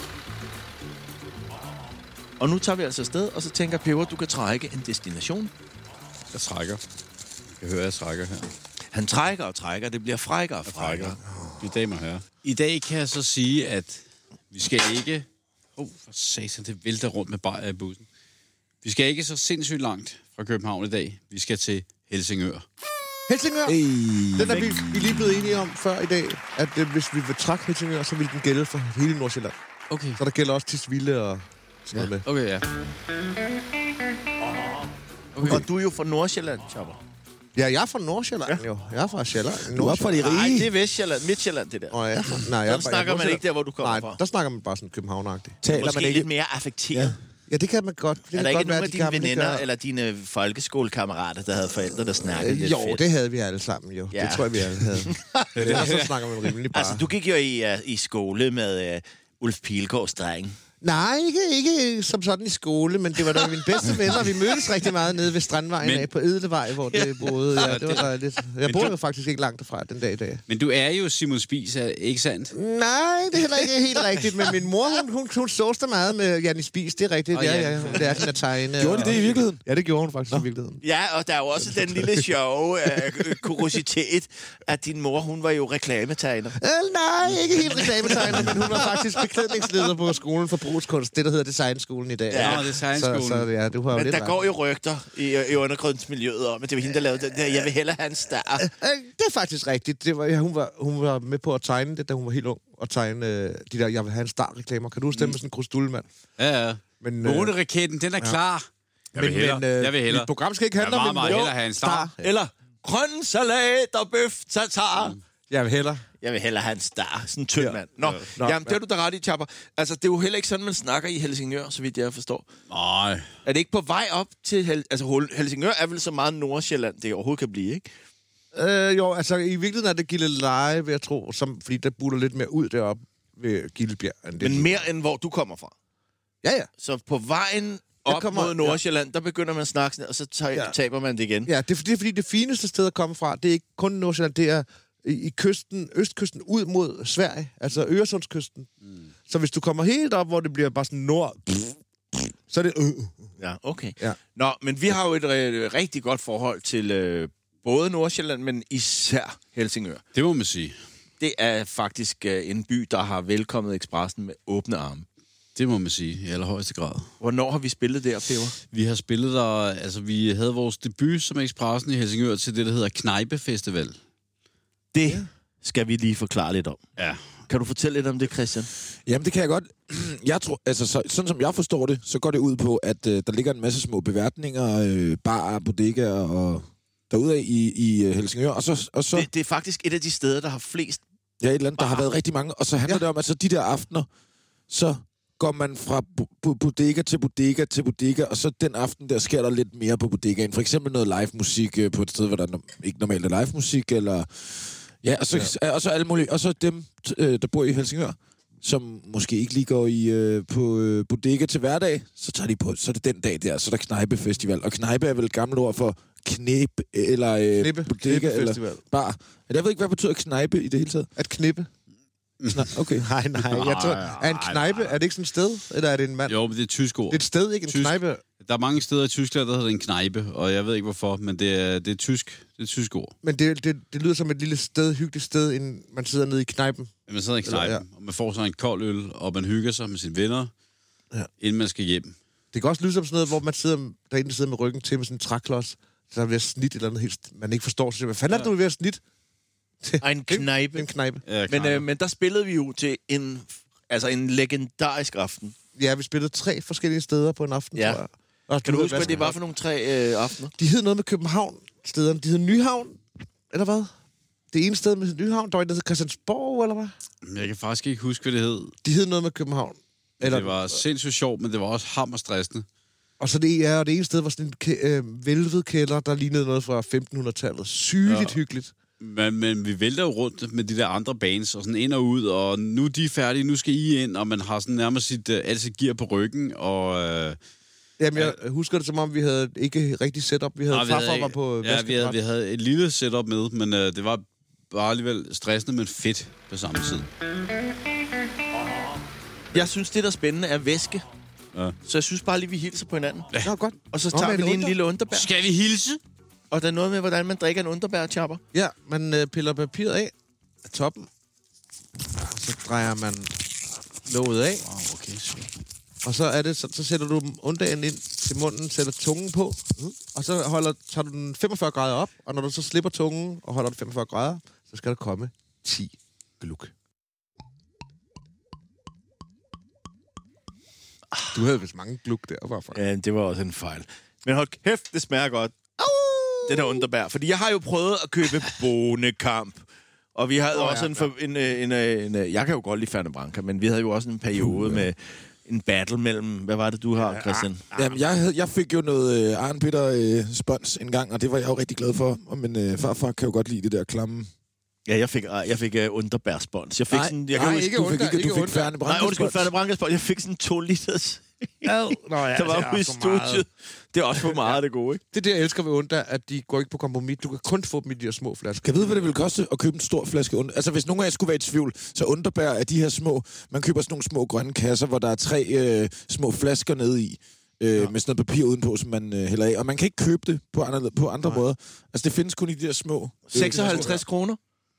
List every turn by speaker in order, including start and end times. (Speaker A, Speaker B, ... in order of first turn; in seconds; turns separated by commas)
Speaker A: 2.4-5.5, Speaker B: 6.3-6.8, Speaker B: 7.6-8.5, Speaker A: 8.9-11.2, Speaker B: 10.7-15.3, Speaker B: 15.8-18.0, Speaker B: 18.8-22.6, Speaker C: 23.3-23.8, Speaker D: 23.7-25.4, Speaker C: 24.3-29.5, Speaker B: 29.9-30.2, Speaker C: 30.2-32.2, Speaker B: 32.2-32.7, Speaker B: 35.4-35.6, Speaker A: 35.4-37.0, Speaker C: 37.6-40.1, Speaker D: 39.7-40.7, Speaker A: 40.2-42.0, Speaker C: 41.9-45.6, Speaker A: 42.5-44.2, Speaker D: 45.6-46.3, Speaker A: 45.7-47.2, Speaker C: 47.5-49.6, Speaker A: 48.3-53.0, Speaker C: 52.3-57.0, Speaker A: 54.1-56.1, Speaker B: 55.6-56.1, Speaker A: 56.7-60.6, Speaker C: 60.8-70.4, Speaker A: 63.4-64.5, Speaker B: 65.8-66.1, Speaker A: 66.9-67.4, Speaker B: 67.6-68.1, Speaker B: 68.6-69.0, Speaker B: 70.5-72.5, Speaker C: 72.5-80.8, Speaker B: 77.3-78.3, Speaker D: 78.8-79.6, Speaker B: 78.9-79.2, Speaker A: 80.8-86.6, Speaker C: 86.6-94.4, Speaker A: 87.5-89.2, Speaker A: 92.3-92.7, Speaker B: 92.4-93.5, Speaker A: 93.9-98.7, Speaker C: 98.6-106.1, Speaker B: 106.4-112.1, Speaker C: 107.0-107.5, Speaker C: 109.2-112.3, Speaker A: 111.2-111.6, Speaker A: 112.2-115.2, Speaker C: 115.5-116.0, Speaker A: 116.2-122.5, Speaker C: 118.3-118.8, Speaker B: 122.7-123.3, Speaker A: 123.5-127.9, Speaker C: 128.5-134.8, Speaker A: 134.4-135.7, Speaker C: 136.4-136.7, Speaker A: 136.8-141.5, Speaker C: 138.1-138.8, Speaker C: 141.5-148.7, Speaker C: 149.3-153.3, Speaker A: 153.4-160.0, Speaker B: 160.1-160.8, Speaker A: 161.2-165.1, Speaker B: 165.6-167.1, Speaker A: 167.2-168.6, Speaker B: 168.7-174.0, Speaker A: 174.9-176.8, Speaker B: 177.0-177.3, Speaker A: 177.5-178.7, Speaker D: 179.1-189.3, Speaker A: 189.1-191.0, Speaker D: 191.4-194.1, Speaker A: 191.8-192.1, Speaker D: 194.7-221.1, Speaker C: 217.6-218.8, Speaker C: 221.2-221.7, Speaker B: 222.4-222.7, Speaker D: 222.5-223.1, Speaker C: 222.9-226.4, Speaker B: 223.4-225.0, Speaker B: 226.3-233.1, Speaker C: 227.1-228.2, Speaker C: 233.2-236.9, Speaker B: 237.1-240.5, Speaker C: 237.4-237.8, Speaker B: 241.4-242.1, Speaker C: 242.5-249.0, Speaker C: 249.8-251.2, Speaker A: 250.0-250.9, Speaker B: 251.2-251.8, Speaker A: 251.5-255.6, Speaker C: 255.8-259.4, Speaker A: 257.8-258.0, Speaker A: 258.6-260.5, Speaker C: 260.6-263.9, Speaker C: 264.5-266.9, Speaker B: 267.2-268.7, Speaker C: 268.8-270.8, Speaker B: 270.2-272.6, Speaker C: 273.2-278.7, Speaker B: 278.1-278.4, Speaker B: 279.0-287.4, Speaker C: 288.0-292.2, Speaker B: 290.7-297.1, Speaker A: 299.5-301.0, Speaker A: 301.9-303.3, Speaker C: 303.4-304.7, Speaker A: 303.9-305.3, Speaker B: 305.1-306.0, Speaker A: 306.5-308.4, Speaker C: 308.5-310.1, Speaker C: 310.6-311.1, Speaker C: 312.3-313.3, Speaker C: 314.1-314.6, Speaker B: 314.6-315.5, Speaker C: 316.0-326.7, Speaker C: 331.3-332.8, Speaker A: 332.7-335.6, Speaker C: 335.8-336.9, Speaker A: 336.5-339.6, Speaker A: 340.1-347.7, Speaker C: 340.5-341.1, Speaker D: 344.4-344.8, Speaker C: 347.0-347.9, Speaker D: 347.7-354.3, Speaker A: 354.9-357.7, Speaker D: 356.9-359.5, Speaker C: 357.3-358.7, Speaker A: 358.8-365.0, Speaker C: 361.6-363.4, Speaker C: 364.3-364.6, Speaker C: 365.1-368.8, Speaker D: 368.6-384.0, Speaker A: 383.3-384.4